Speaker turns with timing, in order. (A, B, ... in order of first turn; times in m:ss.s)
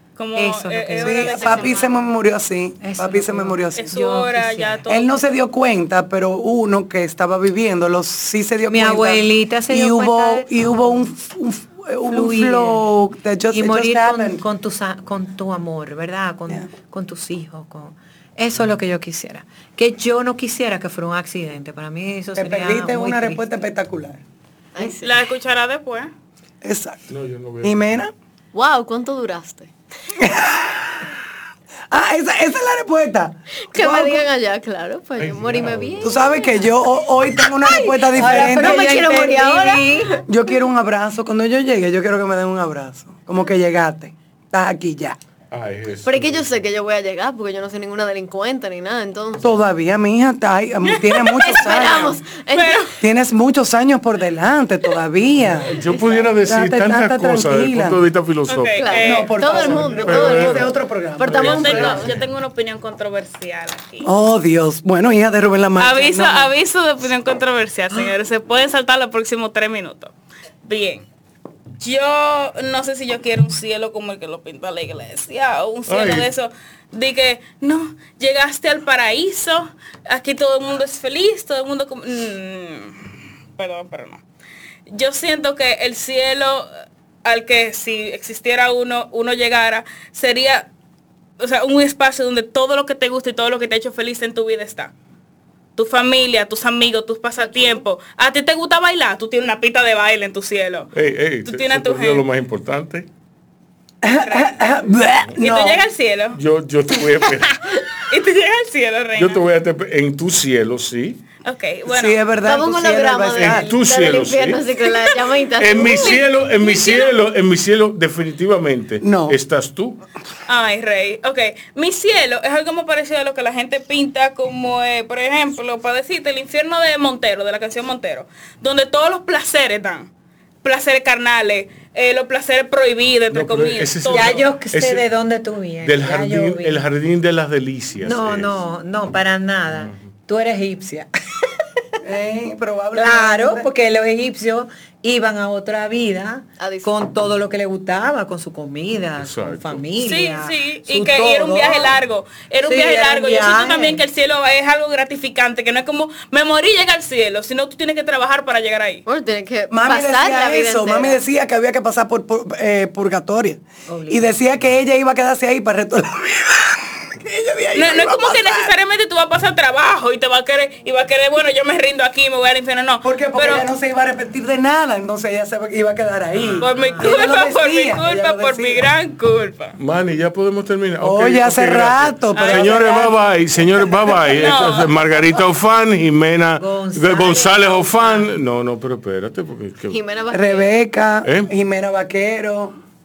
0:00.2-0:01.8 A
0:00.3-0:01.6 B
0:01.0-0:04.0 C
0:01.2-0:02.0 D
0:02.8-0:04.9 B
0:03.8-0:05.3 A
0:04.9-0:14.4 C
0:08.7-0:11.0 B
0:12.1-0:12.8 B
0:13.5-0:23.5 B
0:22.4-0:24.2 C
0:24.7-0:25.1 D
0:25.0-0:26.1 A
0:26.6-0:27.0 C
0:27.1-0:27.8 E
0:27.6-0:28.1 C
0:28.5-0:29.7 D
0:30.2-0:31.0 C
0:31.9-0:34.2 C
0:33.7-0:36.7 D
0:35.2-0:36.1 E
0:36.0-0:39.2 C
0:37.4-0:40.2 D
0:38.1-0:40.2 B
0:40.3-0:45.2 C
0:45.5-0:46.6 E
0:46.0-0:49.5 D
0:49.4-0:52.2 C
0:50.9-0:52.9 A
0:51.4-0:52.9 D
0:53.0-0:55.8 C
0:55.5-0:58.9 E
0:55.7-0:56.3 D
0:56.4-0:58.0 C
0:58.5-0:59.4 A
0:58.8-1:02.2 D
0:59.0-1:02.1 C
0:59.6-1:02.2 E
1:01.3-1:04.1 A
1:04.0-1:06.5 C
1:05.8-1:10.1 A
1:10.6-1:11.0 A
1:11.8-1:24.2 A
1:15.9-1:16.3 E
1:24.9-1:26.7 A
1:27.2-1:30.7 A
1:31.4-1:34.9 A
1:35.8-1:40.9 A
1:40.9-1:43.1 E
1:41.4-1:42.2 A
1:44.0-1:45.8 C
1:44.0-1:44.8 A
1:45.4-1:46.4 A
1:46.3-1:47.6 E
1:47.2-1:49.4 A
1:49.2-1:51.2 E
1:51.4-1:52.2 A
1:51.9-1:53.7 C
1:52.4-1:56.2 D
1:53.3-1:54.6 E
1:54.9-1:57.2 A
1:55.6-2:00.0 E
1:59.0-1:59.4 C
2:00.5-2:10.1 A
2:10.6-2:14.5 A
2:13.3-2:15.0 E
2:14.1-2:16.8 B
2:15.8-2:18.6 E
2:18.0-2:21.1 B
2:19.7-2:20.0 E
2:22.0-2:23.7 C
2:22.9-2:30.5 B
2:26.6-2:26.9 D
2:29.2-2:29.8 E
2:30.0-2:39.0 A
2:30.8-2:31.9 C
2:32.6-2:34.0 B
2:39.0-2:41.2 D
2:39.7-2:48.7 C
2:43.9-2:44.3 B
2:47.7-2:53.7 A
2:53.0-2:58.9 C
2:56.3-2:56.7 E
2:56.6-2:59.8 A
2:56.7-2:57.2 B
2:59.8-3:10.0 E
3:01.0-3:03.2 C
3:02.3-3:03.2 A
3:03.7-3:04.6 C
3:04.1-3:04.9 A
3:06.6-3:08.3 B
3:09.9-3:10.7 D
3:10.3-3:12.8 C
3:11.2-3:11.5 E